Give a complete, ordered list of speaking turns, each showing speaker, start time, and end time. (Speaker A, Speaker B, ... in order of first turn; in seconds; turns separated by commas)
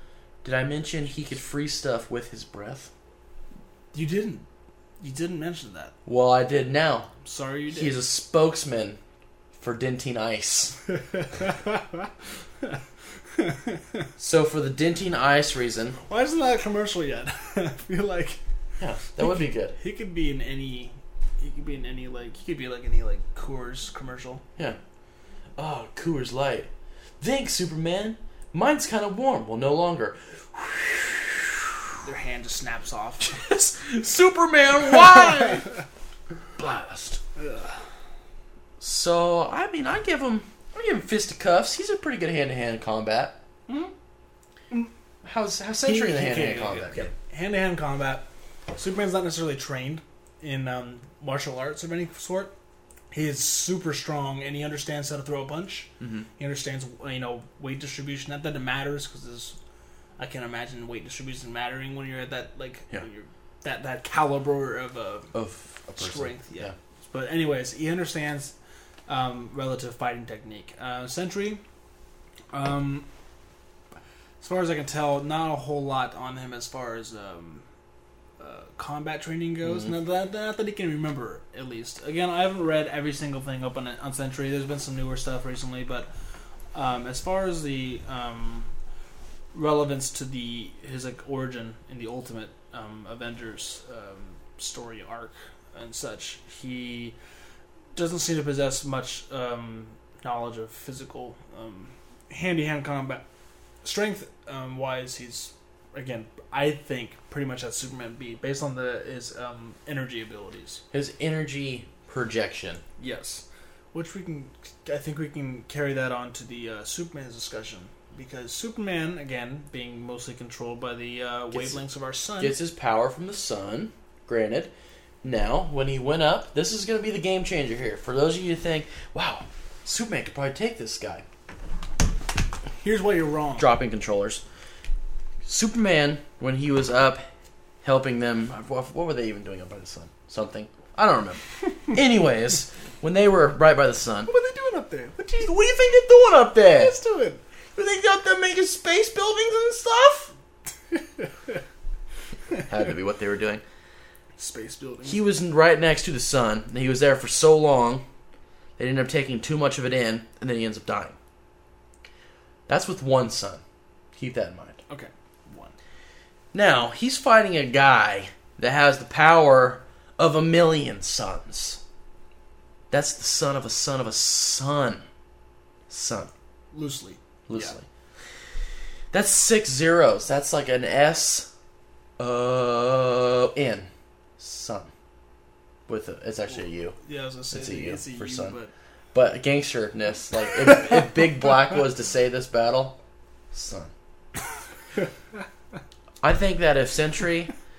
Speaker A: 0.4-2.9, Speaker B: 3.9-4.5, Speaker B: 5.0-5.9, Speaker A: 6.0-7.1, Speaker B: 7.2-8.0, Speaker A: 7.7-9.0, Speaker A: 9.6-10.8, Speaker B: 11.0-12.1, Speaker B: 13.3-14.0, Speaker A: 14.2-16.0, Speaker B: 16.1-18.4, Speaker A: 18.8-19.7, Speaker B: 19.2-24.4, Speaker A: 25.6-31.7, Speaker B: 32.0-33.4, Speaker A: 33.2-35.6, Speaker A: 36.6-37.2, Speaker B: 37.4-37.8, Speaker A: 38.8-43.4, Speaker B: 43.7-43.9, Speaker A: 45.2-47.1, Speaker B: 45.8-52.5, Speaker B: 53.1-59.5, Speaker A: 56.0-56.3, Speaker B: 60.2-65.3, Speaker A: 65.3-66.7, Speaker B: 66.0-68.5, Speaker B: 69.1-71.6, Speaker B: 72.5-73.0, Speaker B: 74.4-77.6, Speaker B: 78.4-86.1, Speaker B: 86.7-88.7, Speaker B: 89.5-97.2, Speaker B: 97.9-103.2, Speaker B: 103.8-110.8, Speaker A: 110.9-112.8, Speaker B: 113.0-122.6, Speaker A: 122.4-124.7, Speaker A: 125.2-131.2, Speaker B: 132.8-133.7, Speaker A: 133.6-134.4, Speaker A: 135.4-137.2, Speaker A: 137.8-144.3, Speaker B: 144.2-145.7, Speaker A: 145.4-146.9, Speaker B: 146.7-147.4, Speaker A: 147.8-150.3, Speaker B: 150.9-151.2, Speaker A: 152.6-153.6, Speaker B: 154.4-155.2, Speaker A: 155.0-158.0, Speaker A: 158.8-161.2, Speaker A: 162.7-163.6, Speaker A: 164.1-164.8, Speaker B: 164.9-165.7, Speaker A: 166.5-171.8, Speaker A: 172.9-175.0, Speaker A: 175.9-176.3, Speaker B: 176.7-177.7, Speaker A: 177.5-177.8, Speaker A: 179.1-181.5, Speaker A: 182.2-184.9, Speaker A: 185.9-186.9, Speaker B: 186.5-188.7, Speaker A: 187.5-188.6, Speaker A: 189.1-193.0, Speaker A: 193.5-193.9, Speaker A: 196.2-197.5